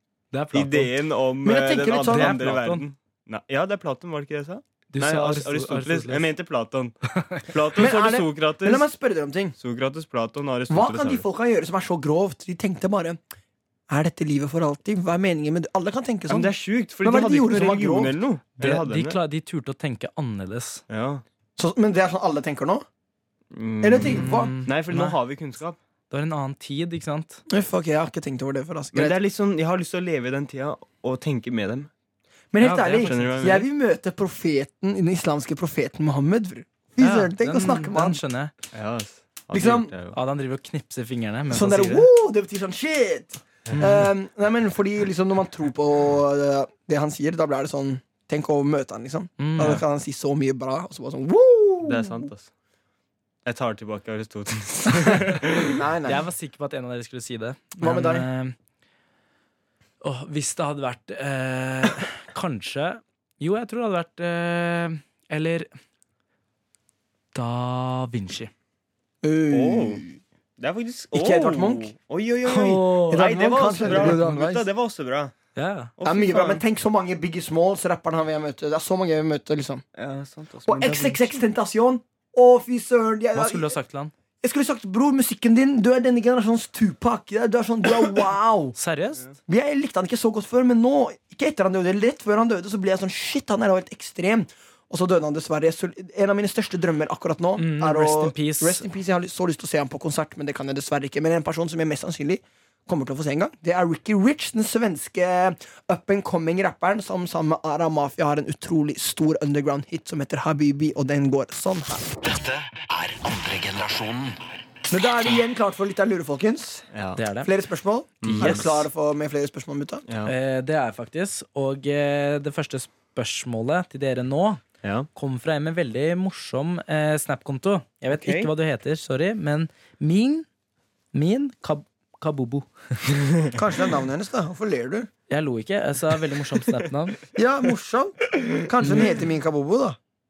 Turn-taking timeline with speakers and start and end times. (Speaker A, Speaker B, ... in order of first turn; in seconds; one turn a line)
Speaker A: 0.3-0.9
Speaker B: 0.5-8.9
Speaker C: 1.4-2.4
Speaker A: 2.1-2.8
Speaker A: 4.9-6.3
Speaker A: 7.2-7.4
Speaker C: 7.8-9.6
Speaker B: 9.6-11.2
Speaker C: 10.7-13.2
Speaker C: 13.9-18.2
Speaker B: 16.3-19.2
Speaker A: 18.6-20.8
Speaker B: 20.9-21.2
Speaker C: 21.6-22.9
Speaker B: 23.5-25.8
Speaker C: 23.8-24.5
Speaker A: 24.1-25.2
Speaker A: 26.1-27.4
Speaker C: 27.5-29.2
Speaker B: 28.9-31.9
Speaker C: 32.5-38.2
Speaker A: 32.6-33.6
Speaker B: 33.0-33.6
Speaker A: 37.0-38.5
Speaker B: 38.7-40.2
Speaker C: 39.5-39.9
Speaker A: 40.1-42.0
Speaker C: 41.5-52.3
Speaker B: 43.7-44.0
Speaker A: 49.4-49.8
Speaker B: 51.8-52.5
Speaker B: 53.5-55.8
Speaker C: 55.6-56.2
Speaker A: 56.1-58.5
Speaker C: 57.8-58.3
Speaker A: 60.0-65.7
Speaker A: 67.3-68.5
Speaker C: 69.2-70.1
Speaker B: 69.5-70.1
Speaker B: 70.6-75.3
Speaker C: 71.1-71.9
Speaker A: 72.5-73.3
Speaker C: 73.1-74.7
Speaker A: 73.8-74.2
Speaker A: 75.6-75.9
Speaker B: 76.0-76.6
Speaker C: 76.0-79.8
Speaker B: 80.0-81.3
Speaker C: 80.7-83.8
Speaker A: 83.3-84.1
Speaker C: 84.4-88.8
Speaker A: 88.8-89.2
Speaker C: 89.5-112.1
Speaker A: 97.6-98.8
Speaker D: 112.2-114.4
Speaker C: 114.9-116.9
Speaker B: 116.9-117.2
Speaker A: 117.2-117.5
Speaker C: 117.4-120.0
Speaker B: 118.2-118.8
Speaker A: 118.3-118.8
Speaker B: 120.1-120.3
Speaker A: 120.2-124.6
Speaker B: 124.8-125.1
Speaker A: 125.2-130.5
Speaker B: 128.2-128.5
Speaker A: 131.1-132.7
Speaker C: 133.5-135.1
Speaker A: 135.3-137.2
Speaker C: 137.3-140.0
Speaker B: 138.4-138.7
Speaker A: 138.8-139.1